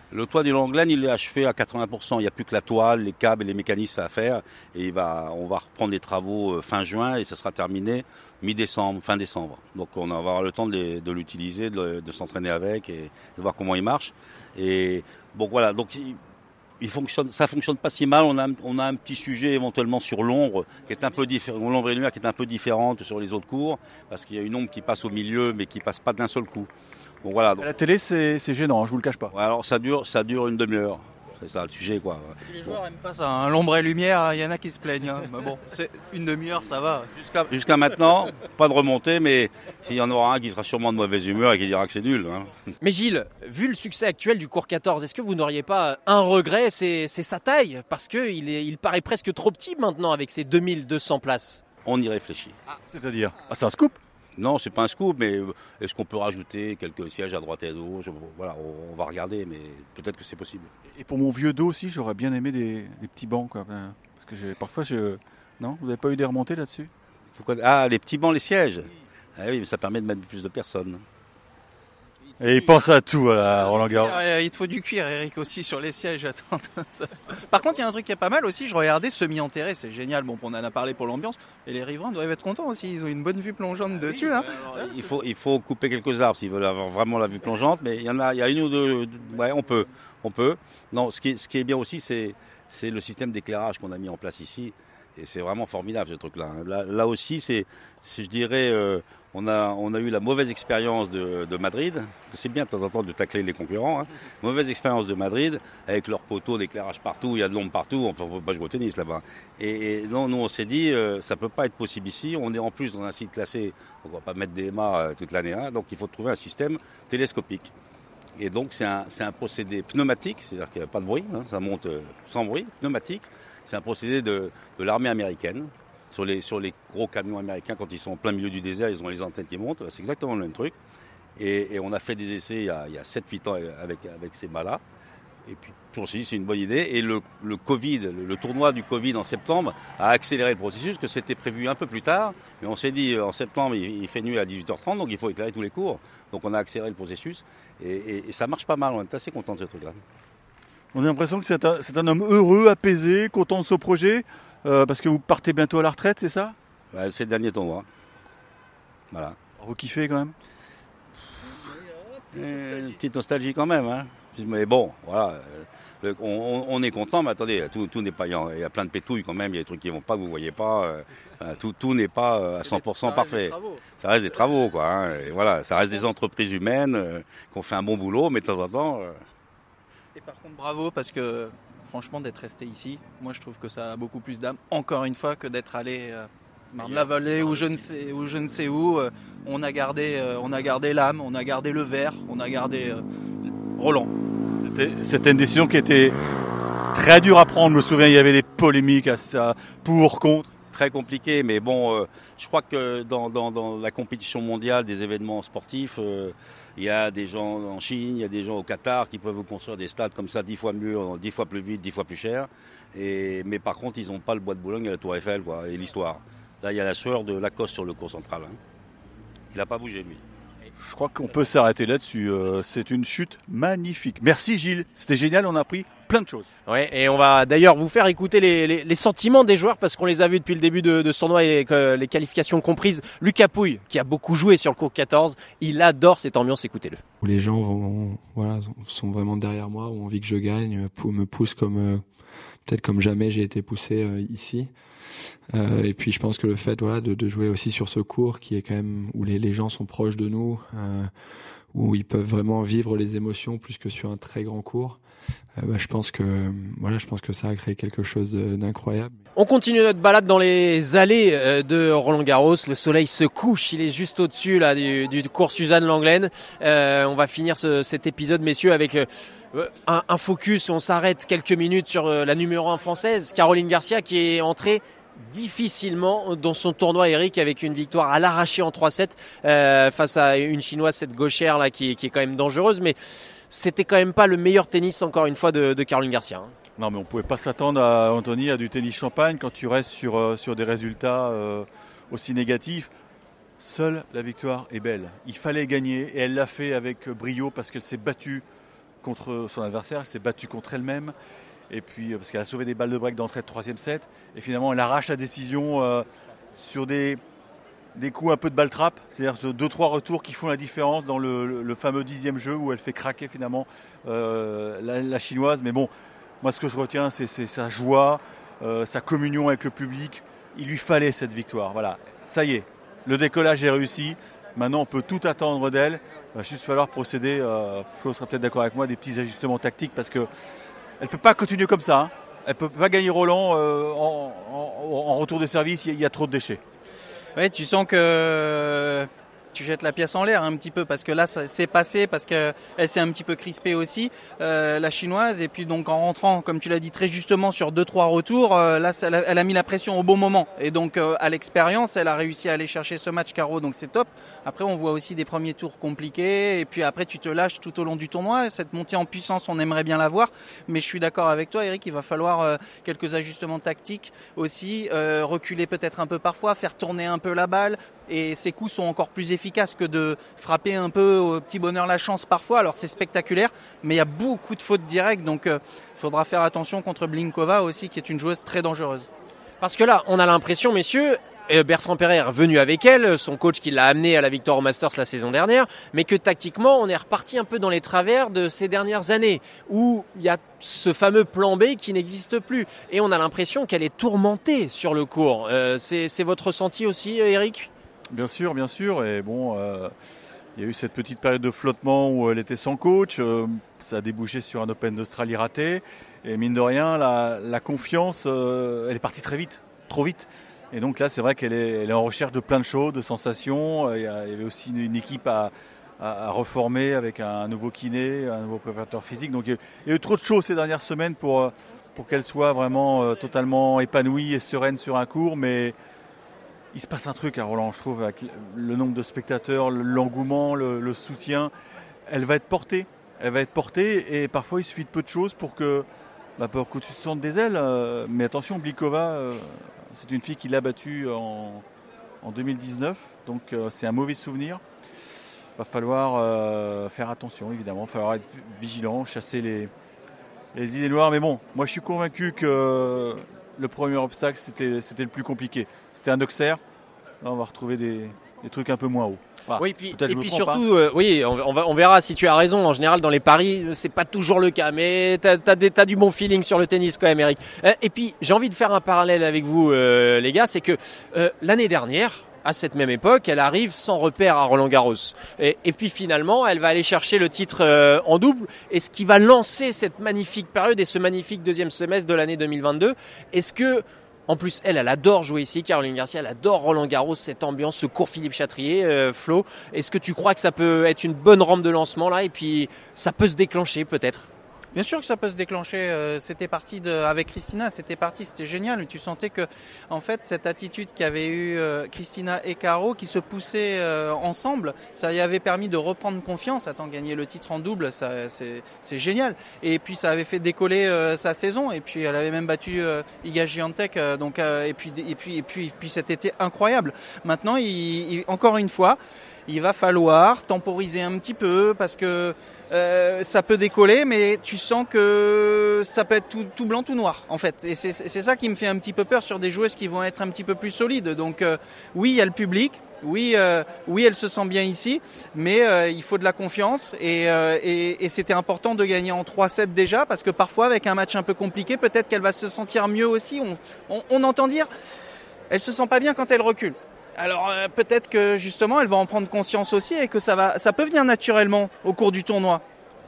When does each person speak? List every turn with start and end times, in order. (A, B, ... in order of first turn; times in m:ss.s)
0:00.1-0:16.2 A
0:16.8-0:26.7 A
0:27.2-0:27.7 A
0:27.6-0:29.3 B
0:29.3-0:32.8 A
0:32.5-0:37.1 C
0:37.2-0:42.5 A
0:42.8-0:51.6 D
0:51.8-0:52.5 A
0:52.9-0:54.0 B
0:54.4-1:00.7 A
1:00.9-1:06.9 B
1:07.4-1:11.0 A
1:12.4-1:14.1 B
1:13.7-1:25.1 C
1:24.1-1:57.7 A
1:58.4-2:10.7 A
2:11.4-2:14.8 A
2:15.5-2:30.0 A
2:30.9-2:36.6 B
2:36.9-2:37.8 A
2:39.1-2:39.4 A
2:39.6-2:40.3 B
2:42.3-2:59.2 A
2:52.6-2:53.8 C
3:00.1-3:13.0 C
3:06.8-3:07.9 A
3:13.6-3:14.1 C
3:14.6-3:16.1 B
3:16.9-3:20.5 B
3:20.7-3:38.6 A
3:39.5-3:40.2 A
3:40.8-3:46.5 B
3:46.7-3:57.0 D
3:57.2-4:02.0 E
4:02.6-4:04.7 E
4:05.5-4:11.1 E
4:11.7-4:15.0 E
4:15.6-4:19.1 E
4:19.4-4:43.0 D
4:43.5-4:46.5 D
4:46.8-4:52.9 B
4:53.6-4:58.4 B
4:59.0-5:01.1 B
5:01.7-5:06.0 B
5:06.6-5:07.2 B
5:07.9-5:15.9 B
5:16.4-5:30.3 B
5:31.0-5:36.6 B
5:37.4-6:19.1 C
6:19.6-6:37.7 D
6:38.1-6:39.9 B
6:40.6-7:05.7 B
7:06.7-7:11.5 B
7:12.1-7:15.8 B
7:16.4-7:21.6 B
7:22.2-7:24.6 B
7:25.6-7:29.7 B
7:30.5-7:36.6 B
7:37.2-7:40.6 B
7:39.6-8:14.3 D
8:14.7-9:04.7 C
9:05.5-9:12.6 C